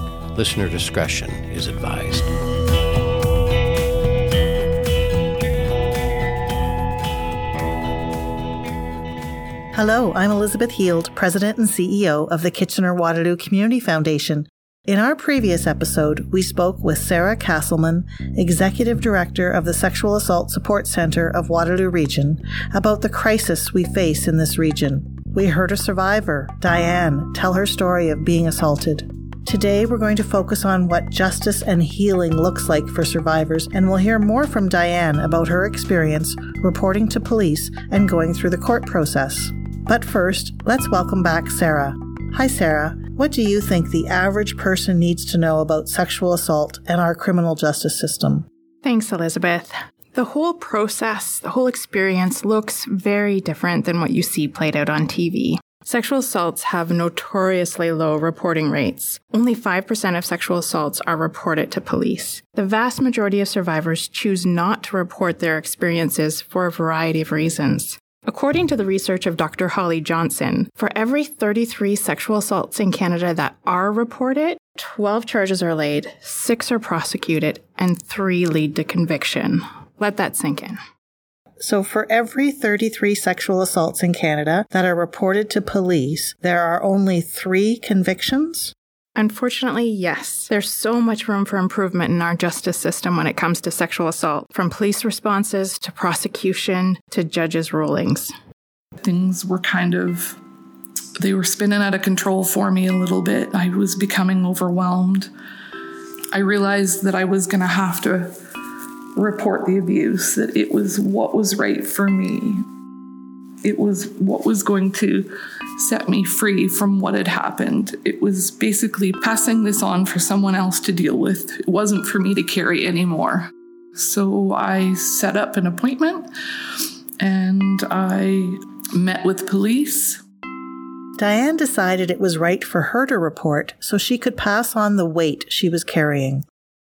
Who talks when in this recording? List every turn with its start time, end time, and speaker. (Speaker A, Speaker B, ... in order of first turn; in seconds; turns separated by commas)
Speaker A: 0.3-2.3, Speaker B: 9.7-48.5, Speaker C: 48.8-80.8, Speaker B: 81.6-88.7, Speaker C: 89.2-98.3, Speaker D: 99.0-100.4, Speaker D: 101.2-105.3, Speaker D: 106.3-108.3, Speaker D: 109.2-112.6, Speaker D: 113.6-130.2, Speaker B: 131.2-136.4